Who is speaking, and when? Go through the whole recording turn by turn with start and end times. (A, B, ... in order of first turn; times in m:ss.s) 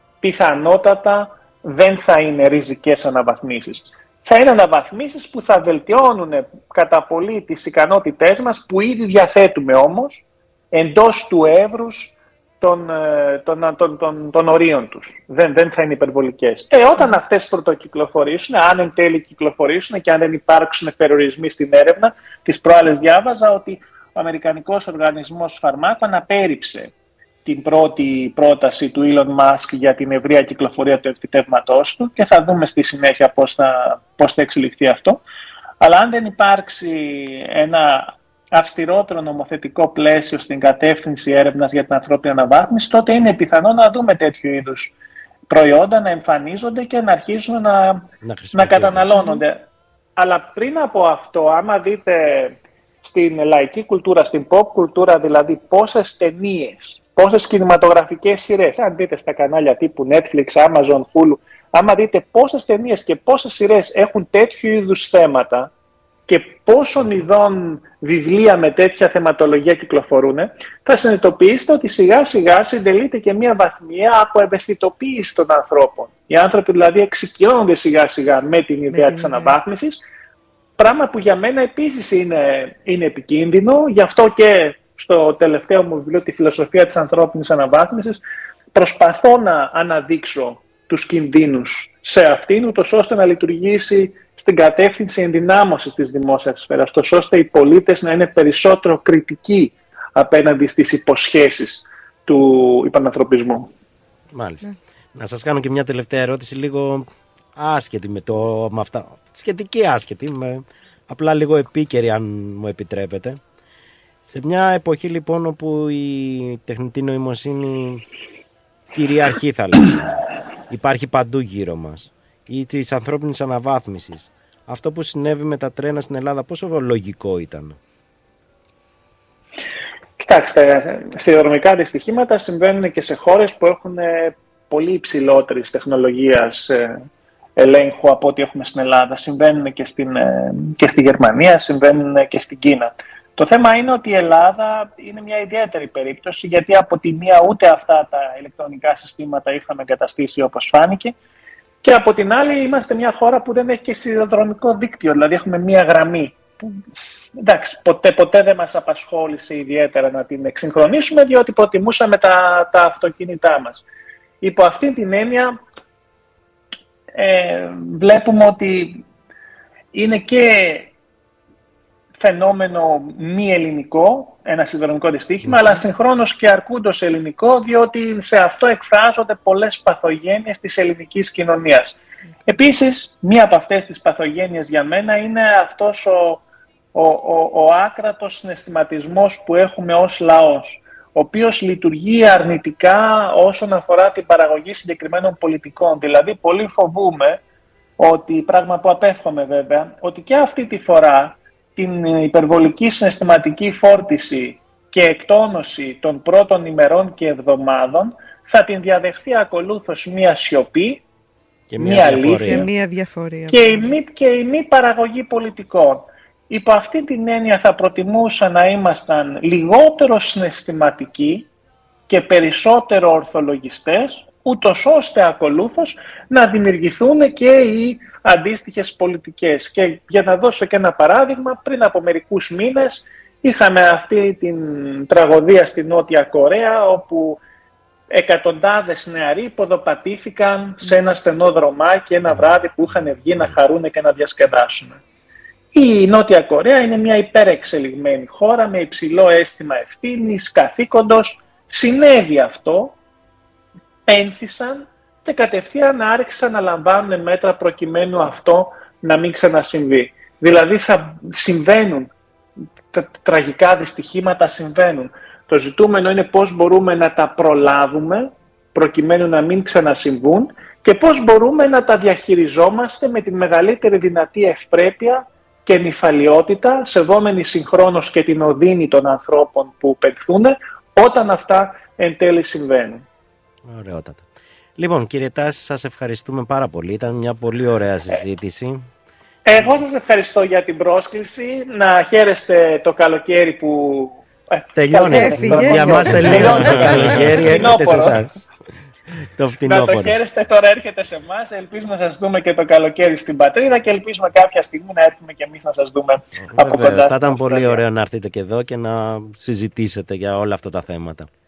0:00.2-0:26.9 A
0:27.4-0:35.2 A
0:35.8-0:44.9 A
0:45.5-0:49.6 A
0:48.2-0:49.1 B
0:50.2-1:05.7 A
1:06.3-1:20.0 A
1:20.8-1:28.2 A
1:28.7-1:43.7 A
1:44.3-1:53.4 B
1:54.2-1:58.0 B
1:58.9-2:07.8 B
2:10.2-2:17.0 A
2:17.6-2:31.2 A
2:31.8-2:36.8 A
2:37.4-2:43.8 A
2:44.4-2:45.6 A
2:47.1-2:49.0 A
2:49.9-2:50.9 A
2:52.2-3:06.4 A
3:06.9-3:17.4 A
3:18.0-3:31.0 A
3:31.7-3:32.7 B
3:31.8-3:32.7 A
3:32.4-3:33.9 C
3:33.5-3:41.5 A
3:42.1-3:57.4 A
3:58.1-4:05.0 A
4:05.7-4:13.0 A
4:14.1-4:22.1 A
4:22.9-4:43.0 A
4:43.6-4:44.2 B
4:44.8-4:48.9 B
4:49.4-4:58.2 A
4:54.8-4:58.4 B
4:55.1-4:57.2 C
4:59.2-5:00.2 B
4:59.7-5:07.8 A
5:06.5-5:11.3 B